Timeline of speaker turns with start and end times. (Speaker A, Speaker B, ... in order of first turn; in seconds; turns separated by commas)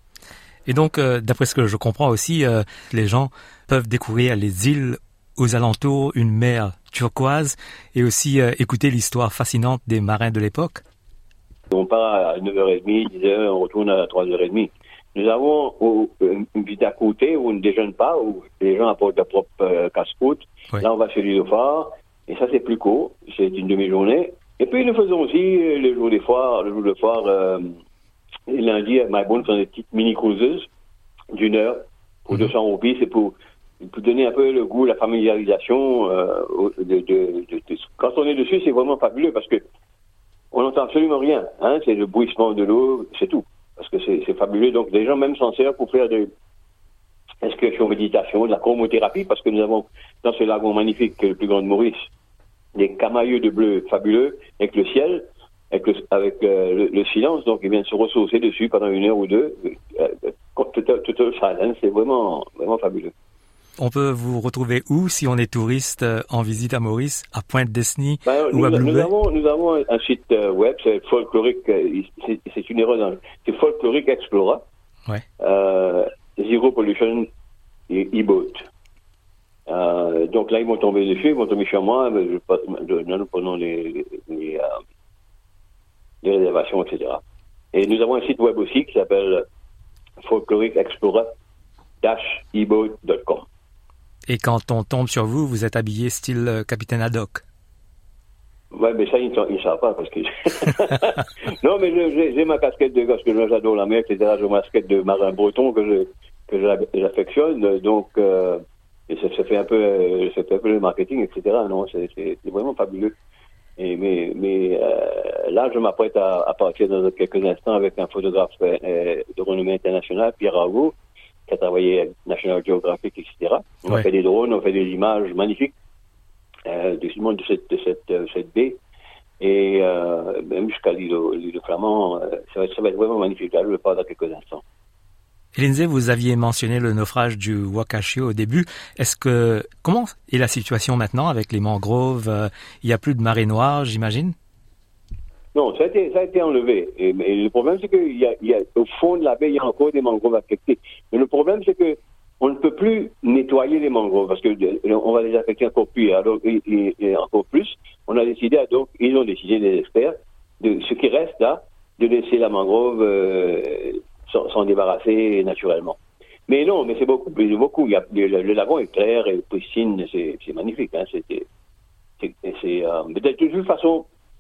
Speaker A: 0.7-10.8, Speaker B: 11.7-27.8, Speaker B: 28.5-30.7, Speaker B: 31.3-39.6, Speaker B: 40.5-46.3, Speaker B: 47.4-52.1, Speaker B: 52.8-63.1, Speaker A: 63.8-69.1, Speaker B: 68.3-74.7, Speaker B: 75.4-77.3, Speaker B: 77.9-78.7, Speaker B: 79.7-84.7, Speaker B: 86.2-87.2, Speaker B: 87.7-89.5, Speaker B: 90.2-91.3, Speaker B: 92.0-93.5, Speaker A: 94.3-97.4, Speaker B: 98.7-113.2, Speaker B: 113.8-121.0, Speaker B: 121.5-125.7, Speaker B: 126.7-128.8, Speaker B: 129.4-134.6, Speaker A: 135.6-144.3, Speaker B: 145.6-171.5, Speaker B: 172.2-174.1